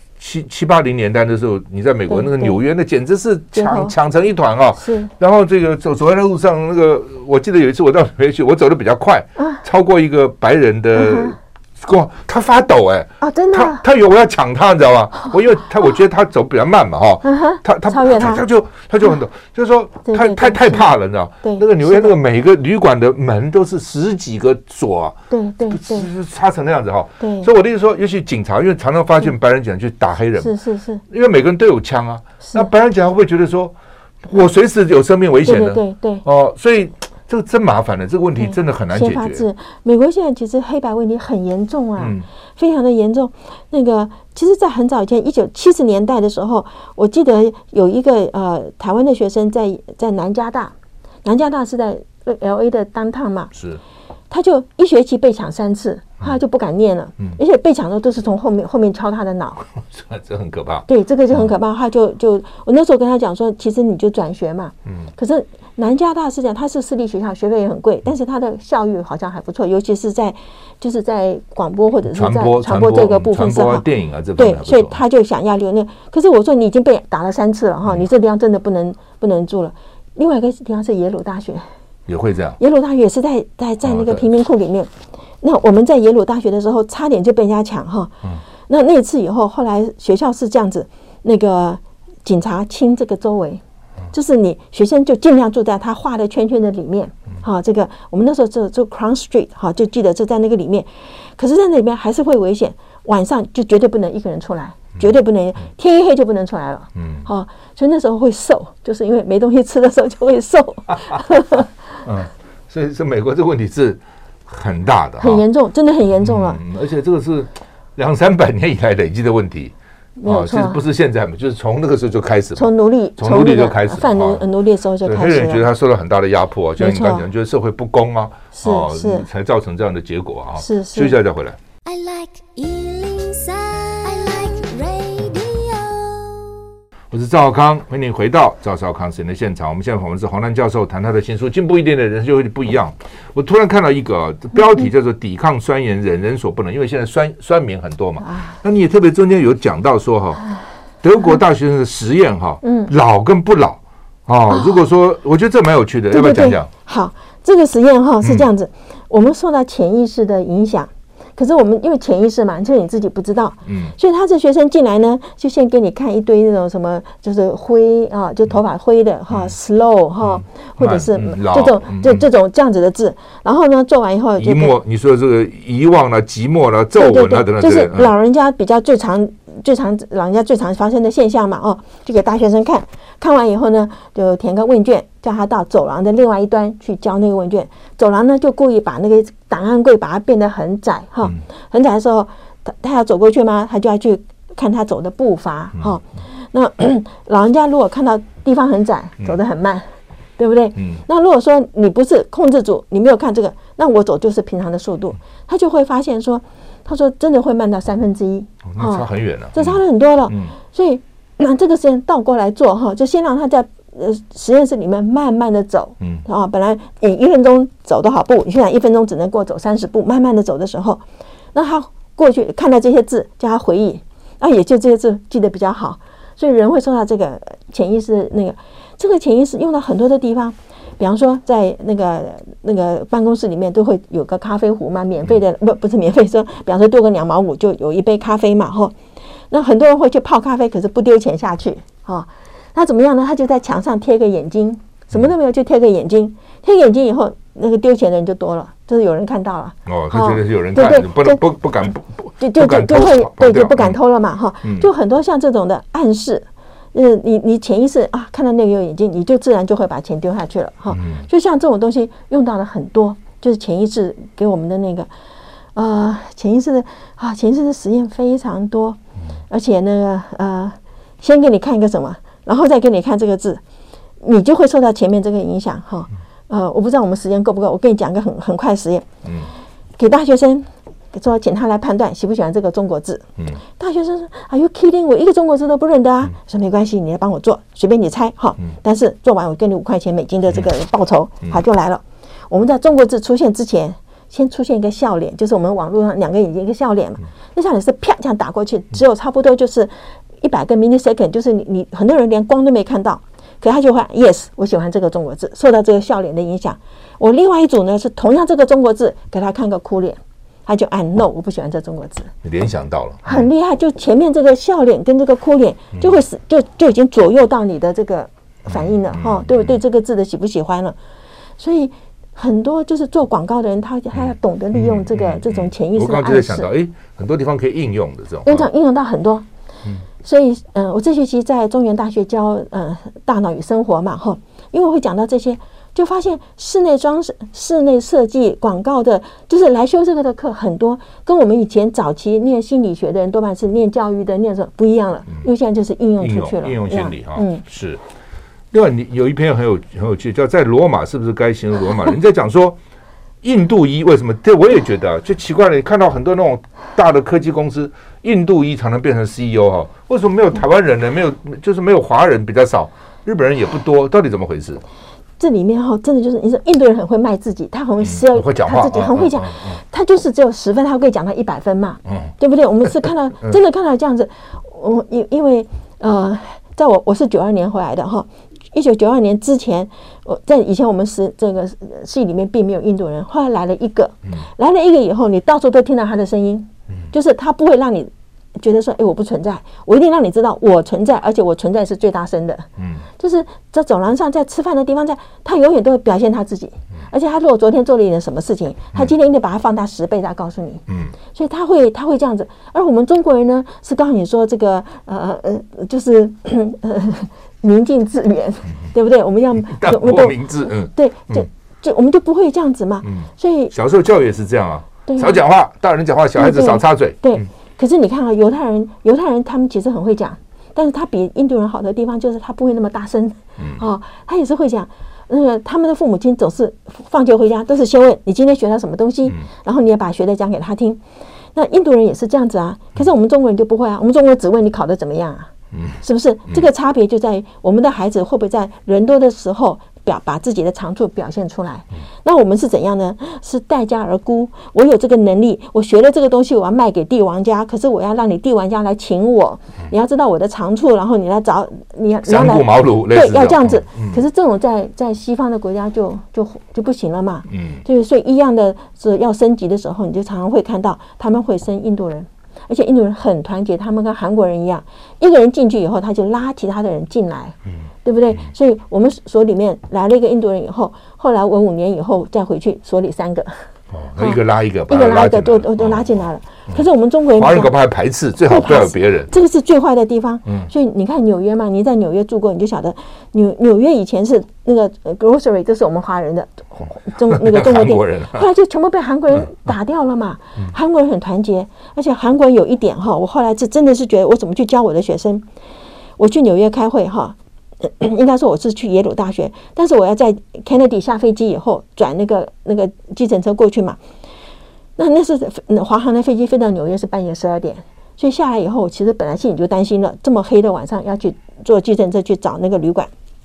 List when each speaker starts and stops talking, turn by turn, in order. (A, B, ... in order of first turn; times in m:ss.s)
0:00.2-0:25.2 A
0:02.1-0:02.6 B
0:03.5-0:03.9 B
0:04.8-0:05.1 B
0:11.0-0:11.4 B
0:13.2-0:13.8 B
0:17.2-0:18.4 B
0:20.1-0:20.9 B
0:21.4-0:22.1 B
0:25.3-0:26.1 B
0:25.7-0:30.5 A
0:27.2-0:27.5 B
0:30.4-0:31.0 B
0:31.1-0:39.4 A
0:32.4-0:32.7 B
0:35.4-0:36.2 B
0:38.4-0:50.7 B
0:42.0-0:42.3 A
0:51.2-0:53.5 B
0:53.5-0:53.8 A
0:54.3-0:59.7 B
0:59.8-1:00.9 A
1:00.9-1:13.8 B
1:12.1-1:15.0 A
1:14.4-1:21.6 B
1:22.1-1:22.6 A
1:22.6-1:51.7 B
1:23.8-1:24.3 A
1:47.0-1:47.3 A
1:52.0-1:55.4 A
1:55.2-1:56.6 B
1:56.2-1:59.7 A
2:00.2-2:00.8 B
2:00.2-2:04.4 A
2:02.6-2:05.6 B
2:05.0-2:11.6 A
2:06.8-2:07.3 B
2:08.5-2:09.3 B
2:10.6-2:11.2 B
2:11.8-2:16.6 C
2:17.1-2:30.5 A
2:28.2-2:28.6 B
2:31.0-2:36.7 A
2:32.6-2:32.9 B
2:34.5-2:34.8 B
2:36.1-2:54.8 B
2:43.7-2:43.9 A
2:50.2-2:52.3 A
2:54.4-2:58.1 A
2:57.0-3:19.8 B
3:20.4-3:59.0 B
3:28.7-3:30.5 A
3:59.5-4:11.4 B
4:09.9-4:14.0 A
4:12.4-4:25.1 B
4:20.9-4:21.3 A
4:25.8-4:29.0 B
4:29.5-4:33.6 B
4:34.2-4:39.1 B
4:39.2-4:39.5 A
4:40.0-5:12.3 B
5:12.4-5:13.5 A
5:13.2-5:21.0 B
5:18.8-5:19.8 A
5:21.6-5:26.7 B
5:24.7-5:28.7 A
5:28.5-5:29.5 B
5:30.2-5:47.6 B
5:46.2-5:48.0 A
5:48.7-5:52.8 A
5:53.4-6:04.8 A
6:05.4-6:53.7 B
6:08.0-6:09.8 A
6:32.8-6:33.0 A
6:40.9-6:41.1 A
6:49.6-6:51.5 A
6:53.0-6:57.5 A
6:55.1-6:55.4 B
6:56.4-7:11.0 B
7:11.6-7:53.5 B
7:32.3-7:34.2 A
7:37.5-7:37.8 A
7:53.9-7:56.1 A
7:54.2-7:57.8 B
7:57.3-7:59.3 A
7:58.5-8:15.5 B
8:07.2-8:08.4 A
8:16.2-8:24.0 B
8:25.0-8:33.1 B